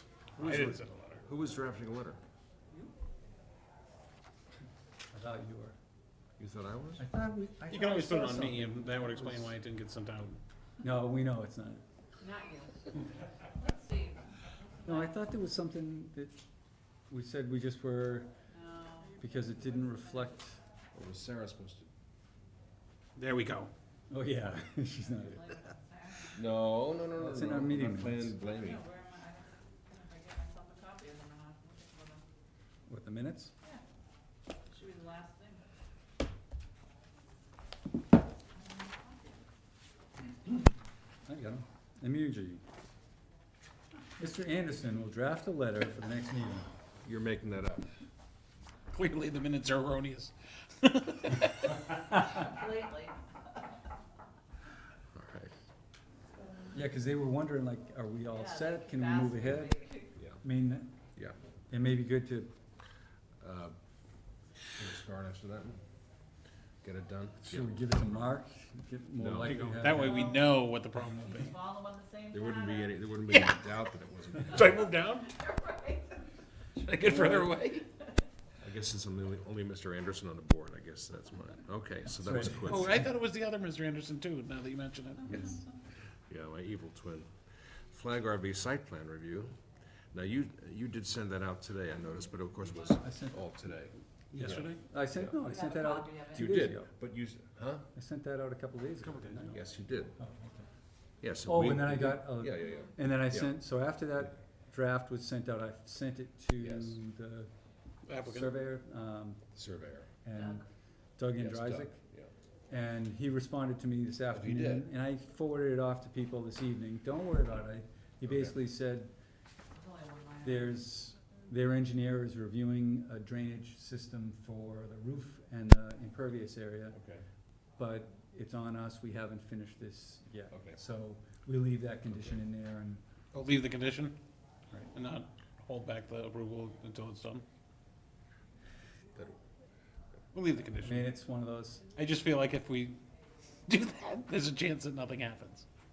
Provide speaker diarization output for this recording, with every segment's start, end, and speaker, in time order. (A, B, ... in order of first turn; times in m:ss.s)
0:00.4-0:01.2 A
0:00.4-0:02.2 B
0:05.1-0:05.8 C
0:06.4-0:07.0 B
0:07.0-0:09.5 C
0:07.7-0:10.4 A
0:10.8-0:11.8 C
0:12.2-0:12.8 D
0:13.6-0:15.1 D
0:14.8-0:16.4 C
0:17.1-0:18.3 C
0:18.5-0:19.2 D
0:19.2-0:20.6 C
0:20.9-0:21.9 B
0:23.2-0:23.7 A
0:24.1-0:25.6 C
0:25.2-0:26.4 D
0:26.3-0:28.9 B
0:27.2-0:28.3 C
0:28.4-0:32.2 D
0:32.8-0:33.5 C
0:34.7-0:35.6 D
0:38.5-0:39.4 D
0:41.2-0:42.6 C
0:44.2-0:46.7 C
0:47.0-0:47.9 B
0:48.9-0:51.9 A
0:52.3-0:53.1 D
0:55.1-0:55.5 B
0:56.7-0:59.8 C
0:58.3-1:00.1 D
1:00.4-1:00.9 C
1:01.7-1:02.5 C
1:03.4-1:03.8 B
1:04.7-1:05.8 B
1:06.8-1:08.3 B
1:07.4-1:10.3 C
1:09.2-1:09.7 B
1:09.4-1:11.5 A
1:09.9-1:10.4 D
1:11.3-1:13.6 D
1:12.3-1:14.8 B
1:14.5-1:15.3 A
1:15.2-1:16.3 D
1:16.8-1:17.8 B
1:17.0-1:17.6 A
1:18.6-1:23.0 B
1:22.2-1:22.7 C
1:22.6-1:25.6 A
1:25.3-1:25.6 B
1:26.3-1:29.5 B
1:30.1-1:35.4 B
1:32.9-1:33.4 C
1:34.3-1:34.8 A
1:34.4-1:36.9 C
1:35.4-1:36.5 D
1:36.3-1:37.9 B
1:37.9-1:39.6 C
1:39.0-1:39.5 A
1:39.5-1:40.2 B
1:40.2-1:40.6 C
1:41.2-1:43.6 B
1:41.4-1:47.5 C
1:46.6-1:47.0 B
1:48.1-1:48.5 A
1:48.2-1:49.4 C
1:49.5-1:50.1 B
1:50.2-1:50.6 C
1:50.3-1:50.6 D
1:51.2-1:52.0 C
1:51.4-1:52.3 B
1:52.7-1:59.1 C
1:54.3-1:54.9 B
1:58.2-1:58.6 B
1:59.7-2:00.7 D
2:00.4-2:07.0 C
2:06.9-2:07.2 B
2:07.8-2:13.0 C
2:10.5-2:10.8 B
2:12.1-2:12.4 B
2:13.3-2:14.2 A
2:14.9-2:17.4 A
2:20.3-2:21.1 A
2:20.8-2:21.8 C
2:22.0-2:23.0 A
2:23.7-2:25.6 A